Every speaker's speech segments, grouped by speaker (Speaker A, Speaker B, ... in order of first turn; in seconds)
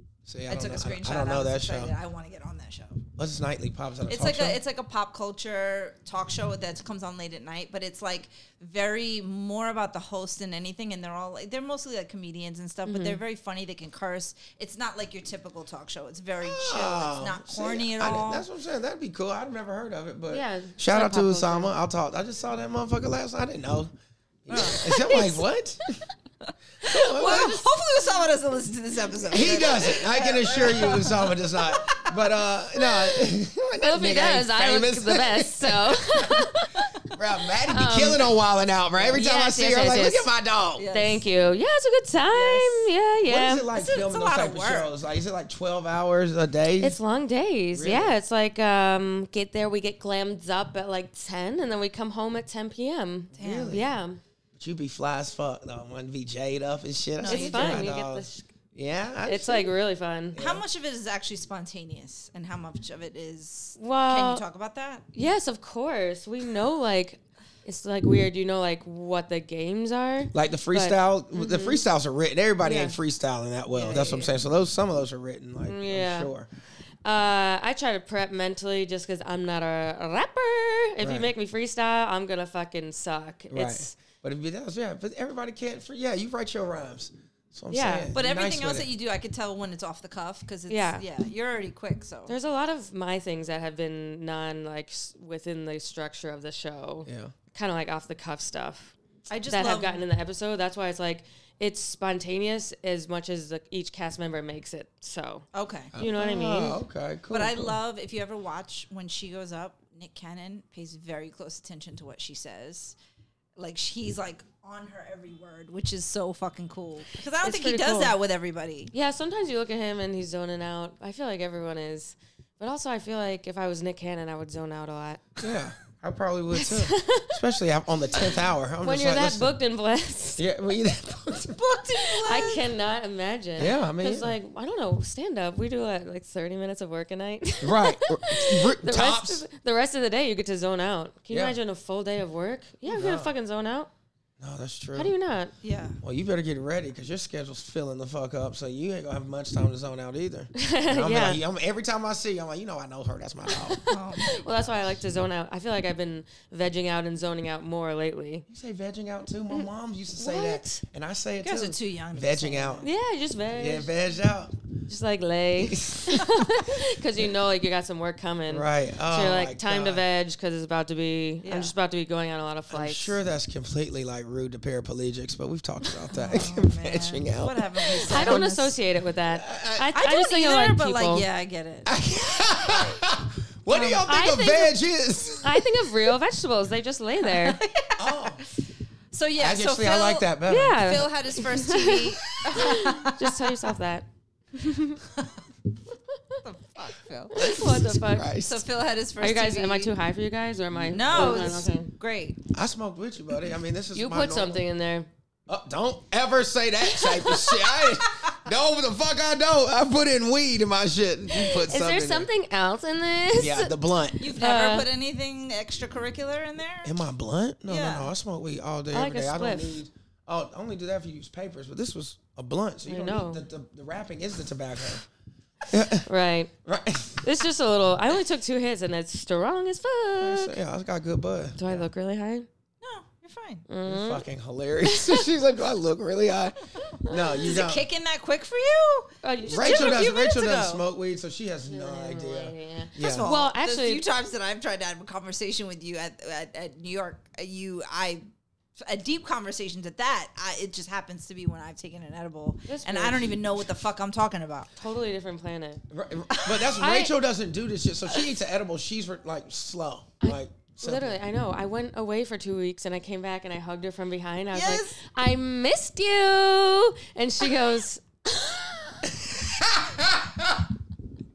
Speaker A: 0.3-1.9, 3.2-4.6, 16.4-23.9, 24.4-26.0, 26.8-27.6, 29.3-36.4, 37.1-40.9, 43.2-47.0, 47.7-48.1, 53.3-53.9, 54.5-59.7, 60.3-60.6, 70.3-76.5, 81.0-81.3, 83.5-88.9, 97.0-97.3, 105.9-107.8, 125.4-129.5, 130.4-131.8, 133.6-134.3, 137.6-139.4, 141.3-141.6, 142.8-143.3, 144.4-145.1, 146.0-153.8, 158.5-162.9, 163.5-164.5, 165.6-166.4, 168.5-170.0, 172.7-178.5, 179.3-179.9, 181.8-185.7, 188.0-188.4, 189.4-190.9, 192.4-192.7, 197.3-198.6, 200.7-201.6, 202.5-204.6, 205.5-212.3, 213.4-214.2, 216.8-225.0, 225.7-226.1, 226.6-227.3, 230.2-231.9, 233.8-237.8, 239.5-243.3, 255.9-261.2, 269.7-270.6
Speaker B: 0.5-3.0, 4.1-18.4, 24.5-25.0, 26.8-32.1, 40.8-41.2, 42.3-42.9, 43.7-44.9, 53.3-53.8, 57.2-57.9, 60.4-65.0, 73.7-74.3, 88.1-92.3, 99.3-100.0, 105.5-105.9, 107.3-112.9, 113.6-118.9, 131.6-132.6, 145.6-146.0, 153.9-154.4, 161.4-162.9, 171.4-171.7, 176.1-178.7, 179.9-181.9, 187.3-188.5, 189.1-193.3, 196.4-197.4, 198.4-199.9, 200.9-202.4, 214.2-216.9, 217.7-218.1, 232.8-233.7, 237.4-240.8, 243.0-248.2, 248.8-254.7, 256.3-256.7, 264.5-264.9
Speaker C: 12.8-13.2, 20.3-21.7, 24.8-25.4, 33.8-36.9, 37.7-38.3, 39.1-40.3, 40.9-43.7, 46.8-54.2, 57.3-58.5, 59.2-60.4, 63.8-64.4, 65.1-71.8, 72.6-72.9, 75.6-76.3, 77.0-84.0, 87.7-88.1, 90.7-91.0, 92.3-98.9, 99.5-106.8, 117.4-118.1, 118.9-125.3, 126.6-127.3, 128.8-130.4, 132.0-143.9, 144.9-145.5, 150.6-151.4, 153.5-158.4, 159.5-160.8, 162.8-163.9, 164.9-173.1, 178.1-181.2, 183.7-184.8, 185.4-187.6, 190.5-195.0, 197.3-198.3, 199.2-201.9, 203.9-205.1, 206.9-207.5, 211.3-214.9, 218.9-219.8, 222.9-223.4, 226.0-226.5, 227.2-230.5, 231.6-232.5, 233.7-234.2, 234.8-235.2, 237.0-237.5, 239.2-240.0, 241.7-244.0, 252.7-253.3, 254.8-255.8, 256.8-257.1, 260.2-269.1